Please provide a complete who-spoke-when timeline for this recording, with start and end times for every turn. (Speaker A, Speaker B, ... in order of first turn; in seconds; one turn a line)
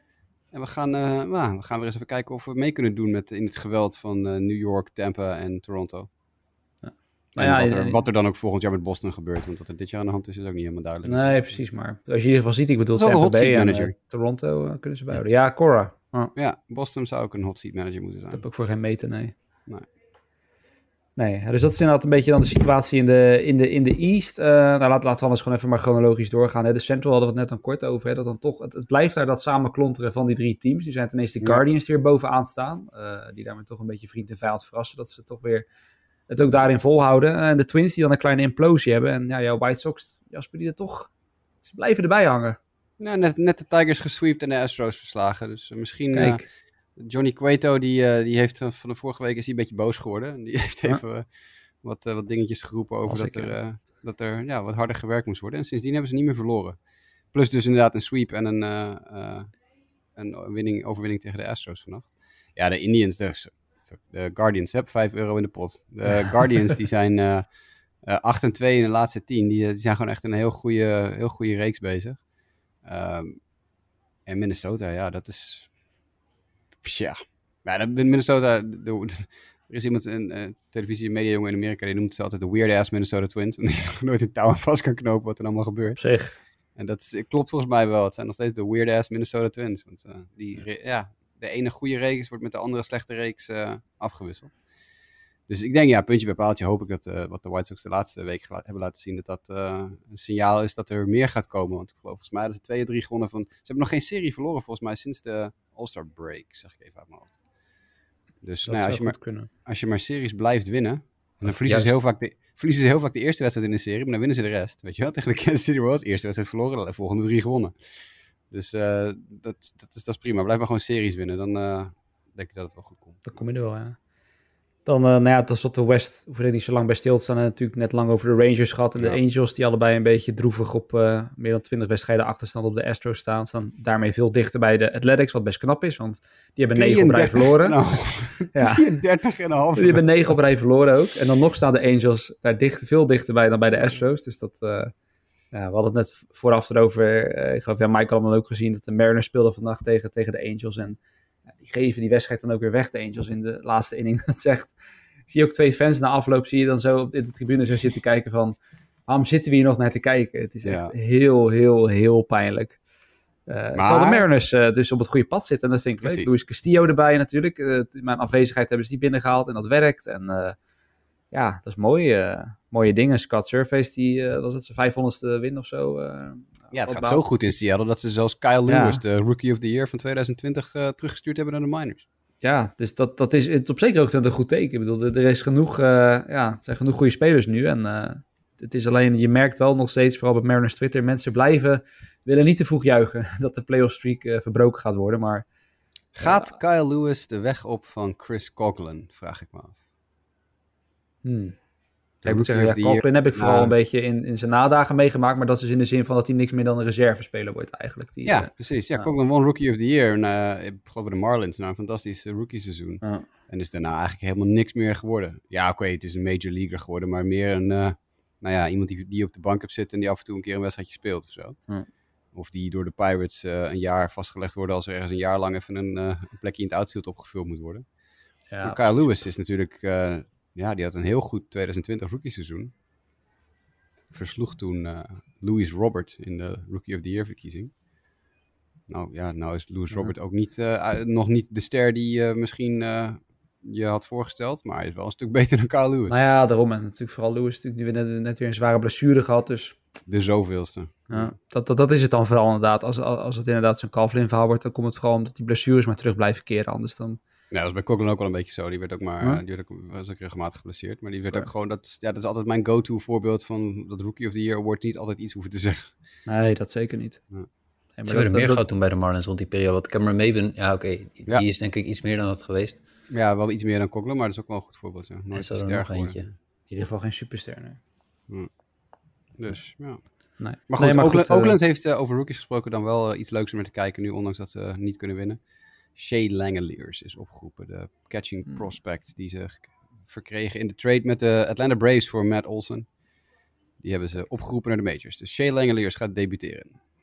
Speaker A: 0.5-6.1
Speaker B: 6.8-8.0
Speaker A: 7.4-11.6
Speaker B: 11.1-16.3
Speaker A: 12.9-13.9
Speaker A: 16.4-18.4
Speaker B: 18.3-19.4
Speaker B: 21.2-35.7
Speaker B: 36.3-41.1
Speaker B: 41.7-42.6
Speaker A: 43.0-46.4
Speaker B: 46.1-46.4
Speaker A: 47.0-51.3
Speaker A: 51.8-56.8
Speaker B: 53.1-53.6
Speaker A: 57.3-59.5
Speaker A: 60.1-67.5
Speaker A: 68.0-72.2
Speaker A: 72.8-73.4
Speaker A: 74.3-75.7
Speaker A: 76.8-86.0
Speaker B: 86.0-86.4
Speaker A: 86.8-94.5
Speaker A: 95.5-107.4
Speaker A: 108.4-117.8
Speaker B: 108.7-109.5
Speaker C: 111.5-111.9
Speaker A: 118.5-123.4
Speaker B: 123.3-124.0
Speaker B: 124.9-137.8
Speaker A: 136.7-140.3
Speaker B: 138.5-138.9
Speaker B: 139.8-144.9
Speaker B: 145.5-151.0
Speaker B: 151.6-154.8
Speaker B: 155.3-158.6
Speaker B: 159.1-162.8
Speaker A: 160.6-160.9
Speaker B: 163.5-170.6
Speaker A: 163.8-164.3
Speaker A: 166.0-166.3
Speaker B: 171.3-177.2
Speaker A: 176.7-182.1
Speaker B: 178.7-179.0
Speaker B: 182.4-195.5
Speaker A: 196.1-199.8
Speaker B: 196.2-196.5
Speaker B: 201.2-201.6
Speaker A: 202.2-203.7
Speaker B: 202.2-209.1
Speaker A: 208.2-221.6
Speaker B: 213.0-213.3
Speaker A: 222.3-227.8
Speaker B: 228.5-229.0
Speaker A: 228.6-232.7
Speaker A: 234.1-237.7
Speaker A: 238.9-246.2
Speaker B: 246.1-249.8
Speaker A: 250.1-251.3
Speaker B: 251.1-257.2
Speaker A: 257.5-265.9
Speaker B: 266.3-267.2
Speaker B: 268.0-268.6
Speaker C: 268.1-272.8
Speaker A: 273.1-276.3
Speaker C: 275.3-276.3
Speaker B: 276.7-277.8
Speaker A: 279.3-285.4
Speaker B: 280.4-281.6
Speaker A: 285.9-292.9
Speaker A: 293.8-296.8